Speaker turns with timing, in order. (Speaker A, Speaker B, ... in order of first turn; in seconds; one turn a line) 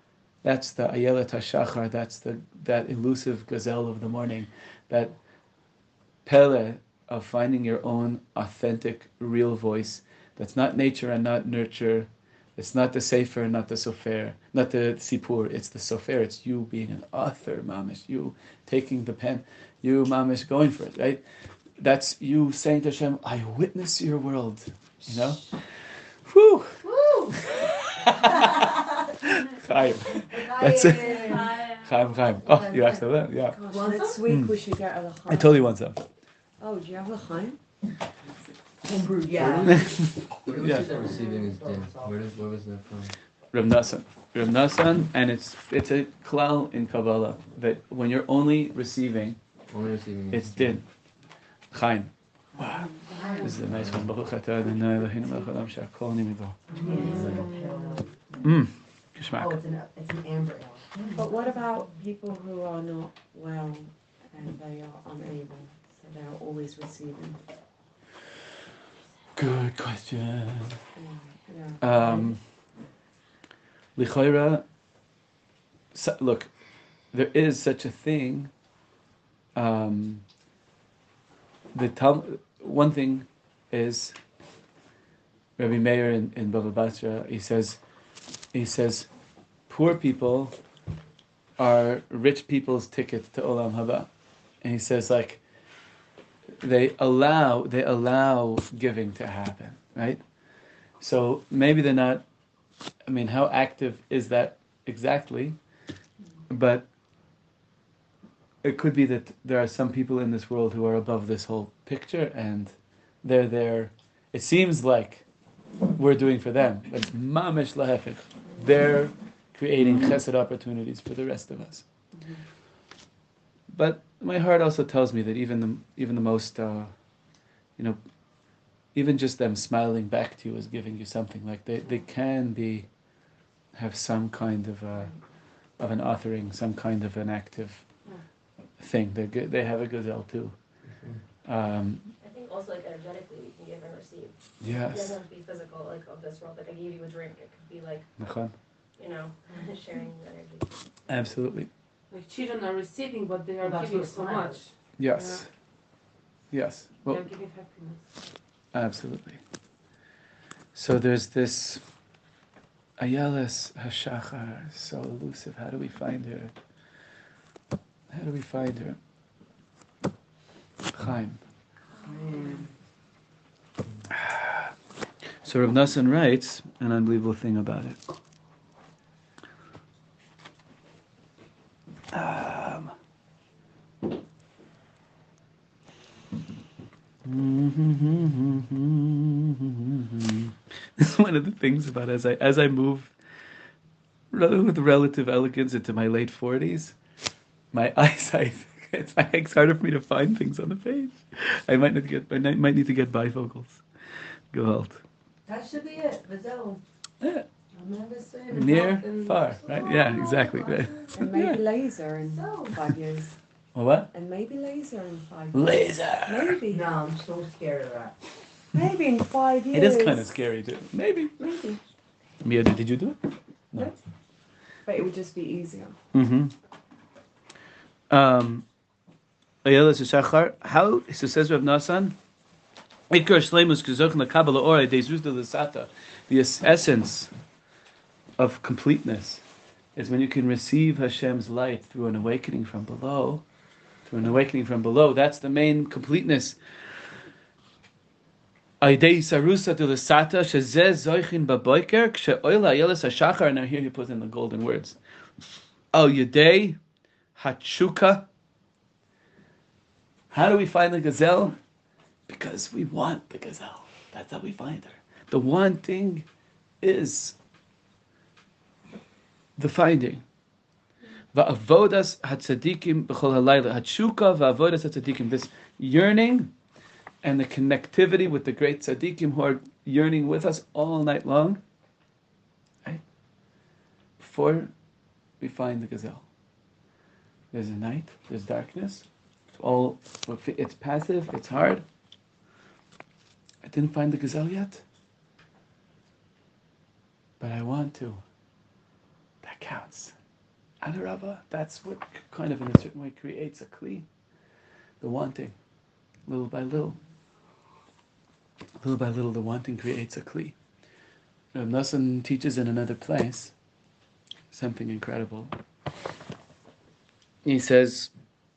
Speaker A: 0.4-5.2
Speaker A: 6.2-21.2
Speaker A: 21.8-25.4
Speaker A: 26.2-26.8
Speaker B: 26.9-27.3
Speaker A: 27.4-33.6
Speaker B: 28.2-28.7
Speaker B: 30.1-31.6
Speaker C: 31.1-31.5
Speaker B: 32.5-33.0
Speaker C: 33.4-35.7
Speaker B: 33.6-34.2
Speaker A: 34.2-34.6
Speaker A: 35.3-36.0
Speaker C: 36.6-37.6
Speaker B: 38.9-40.0
Speaker C: 38.9-39.6
Speaker D: 39.4-39.8
Speaker A: 39.6-40.9
Speaker D: 40.4-43.1
Speaker B: 40.6-42.1
Speaker A: 43.5-49.4
Speaker D: 49.7-50.8
Speaker A: 50.3-50.8
Speaker A: 51.7-52.9
Speaker B: 52.9-53.6
Speaker A: 53.4-56.6
Speaker D: 53.7-54.0
Speaker C: 56.7-57.1
Speaker B: 56.7-58.4
Speaker A: 58.4-59.6
Speaker B: 59.2-61.0
Speaker C: 61.1-67.4
Speaker A: 69.3-70.8
Speaker C: 71.0-72.3
Speaker A: 71.8-72.4
Speaker A: 74.0-74.6
Speaker A: 75.9-76.5
Speaker A: 77.1-78.5
Speaker A: 79.5-80.2
Speaker A: 81.7-84.2
Speaker A: 85.6-87.8
Speaker A: 88.5-89.1
Speaker A: 89.7-90.5
Speaker A: 91.6-94.1
Speaker A: 94.6-95.4
Speaker A: 96.6-100.2
Speaker A: 101.0-102.2
Speaker A: 103.1-105.6
Speaker A: 106.5-106.9
Speaker A: 108.6-115.2
Speaker A: 116.0-121.8
Speaker A: 123.7-126.9
Speaker A: 128.9-132.9
Speaker A: 133.7-135.1
Speaker A: 135.8-137.8
Speaker A: 138.8-140.5
Speaker A: 141.4-142.1
Speaker E: 142.2-148.1
Speaker A: 144.6-145.2
Speaker A: 148.2-148.5
Speaker E: 149.0-150.7
Speaker A: 151.1-151.7
Speaker F: 152.1-155.4
Speaker B: 153.6-154.6
Speaker A: 155.0-155.5
Speaker A: 156.5-157.2
Speaker F: 157.0-158.1
Speaker A: 158.7-159.4
Speaker A: 160.7-161.8
Speaker A: 163.0-166.5
Speaker A: 168.1-169.0
Speaker A: 170.9-171.4
Speaker B: 172.0-172.6
Speaker C: 172.0-172.7
Speaker A: 174.1-174.7
Speaker A: 175.4-178.0
Speaker A: 182.1-182.9
Speaker A: 187.2-193.1
Speaker A: 194.3-196.9
Speaker A: 197.7-203.8
Speaker A: 204.5-205.0
Speaker B: 205.4-206.8
Speaker A: 207.2-207.4
Speaker B: 207.7-209.0
Speaker F: 208.5-209.7
Speaker A: 208.5-211.6
Speaker B: 209.6-211.0
Speaker C: 211.1-213.3
Speaker B: 212.3-212.8
Speaker A: 213.7-214.1
Speaker C: 214.1-216.9
Speaker A: 215.5-216.6
Speaker B: 216.7-218.1
Speaker C: 218.7-220.3
Speaker A: 219.7-221.3
Speaker C: 221.4-221.8
Speaker A: 222.4-223.2
Speaker C: 224.8-225.9
Speaker A: 226.1-226.5
Speaker A: 228.1-228.6
Speaker A: 229.6-232.2
Speaker A: 233.1-237.3
Speaker A: 238.4-239.4
Speaker A: 239.9-243.4
Speaker A: 244.1-246.6
Speaker A: 248.8-255.0
Speaker A: 255.9-256.8
Speaker A: 257.4-258.3
Speaker A: 260.3-261.6
Speaker A: 262.3-266.2
Speaker A: 266.8-267.4
Speaker A: 269.6-270.2
Speaker A: 271.3-276.5
Speaker A: 277.2-281.6
Speaker A: 284.2-284.7
Speaker A: 285.4-286.2
Speaker A: 287.5-289.1
Speaker A: 289.6-291.8
Speaker A: 293.6-294.8
Speaker A: 297.4-298.2
Speaker A: 299.4-300.1
Speaker A: 300.8-304.1
Speaker A: 305.0-305.5
Speaker A: 306.3-307.0
Speaker A: 308.8-310.5
Speaker A: 311.5-313.5
Speaker A: 314.5-315.5
Speaker A: 317.4-318.1